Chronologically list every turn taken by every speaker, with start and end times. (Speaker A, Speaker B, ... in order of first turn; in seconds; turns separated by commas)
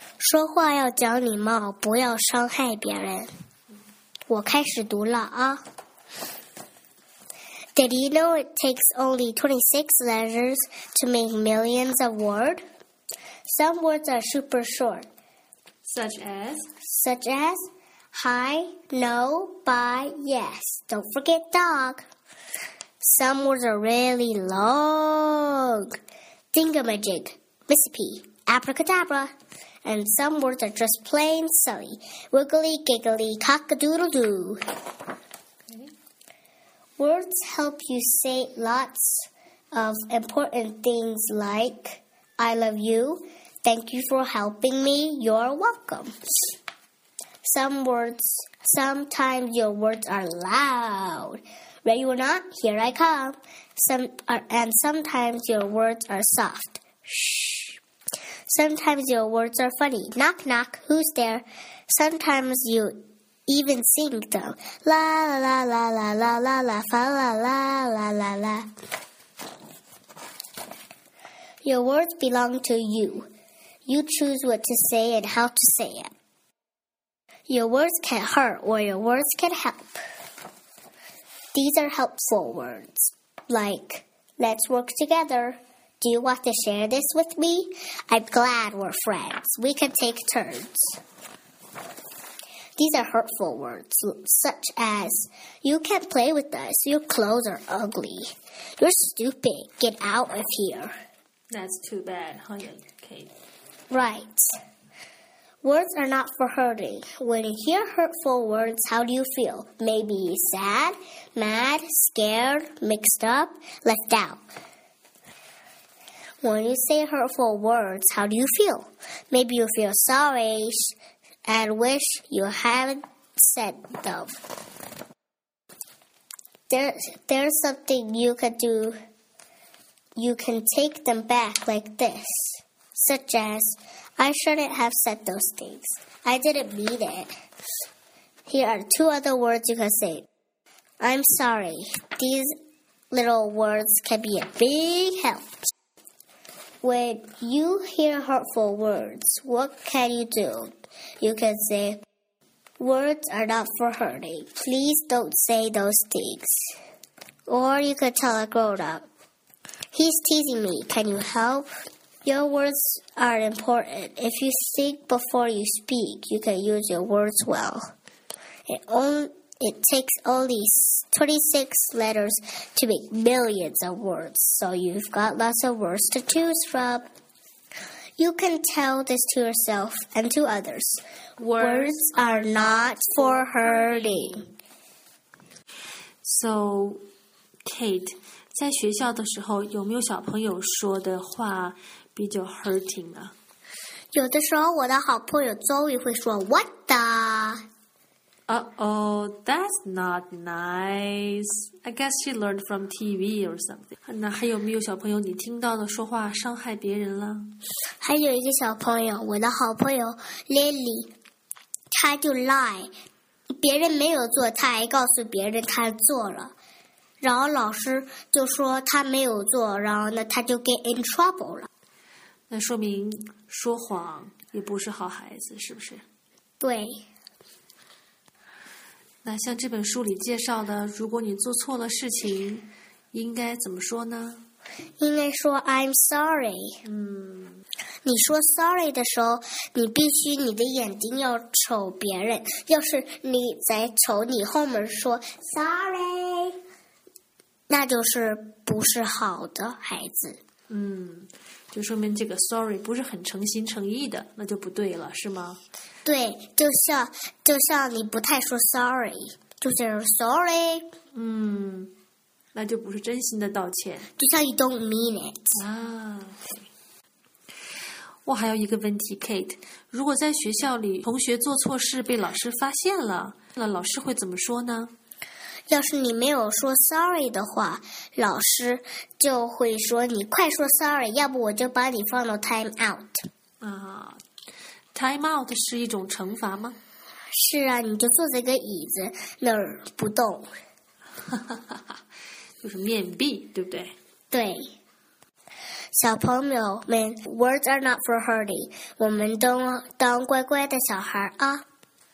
Speaker A: 0.2-3.3, Speaker A: 4.3-5.6, Speaker A: 7.8-12.6, Speaker A: 13.4-15.1, Speaker B: 15.8-16.7, Speaker A: 16.8-22.0, Speaker A: 23.0-26.0, Speaker A: 26.5-29.3, Speaker A: 29.8-34.6, Speaker A: 37.0-46.5, Speaker A: 47.4-57.8, Speaker A: 58.5-68.7, Speaker A: 71.6-73.3, Speaker A: 73.9-76.1, Speaker A: 77.5-80.0, Speaker A: 81.5-91.0, Speaker A: 92.8-100.9, Speaker B: 101.5-103.3, Speaker A: 103.9-104.5, Speaker A: 105.6-114.4, Speaker A: 116.4-120.9, Speaker A: 121.5-124.3, Speaker A: 126.7-129.0, Speaker A: 130.2-137.3, Speaker A: 138.5-140.2, Speaker A: 141.0-142.5, Speaker A: 143.1-145.7, Speaker A: 146.8-152.0, Speaker A: 152.8-156.7, Speaker A: 157.5-159.1, Speaker A: 159.9-167.9, Speaker A: 168.7-177.1, Speaker A: 178.2-181.0, Speaker B: 181.4-181.9, Speaker A: 181.6-184.5, Speaker B: 186.2-187.0, Speaker B: 187.6-193.3, Speaker A: 194.1-197.6, Speaker B: 198.5-207.5, Speaker A: 208.0-211.1, Speaker A: 211.9-212.9, Speaker A: 213.5-216.5, Speaker A: 217.2-221.7, Speaker B: 222.5-226.0, Speaker A: 226.6-227.0, Speaker B: 229.2-234.4, Speaker A: 235.0-236.8, Speaker B: 236.8-237.6, Speaker A: 238.0-246.6, Speaker A: 247.7-250.4, Speaker B: 250.7-255.6, Speaker A: 256.0-260.9, Speaker B: 261.1-261.9, Speaker B: 262.5-264.1, Speaker A: 264.2-265.6, Speaker B: 265.5-266.6, Speaker B: 268.2-274.9, Speaker A: 275.7-283.2, Speaker B: 283.6-284.2, Speaker B: 284.9-286.8, Speaker A: 287.3-290.5, Speaker B: 291.3-291.9, Speaker B: 292.6-293.9, Speaker A: 294.3-294.7, Speaker A: 295.9-301.6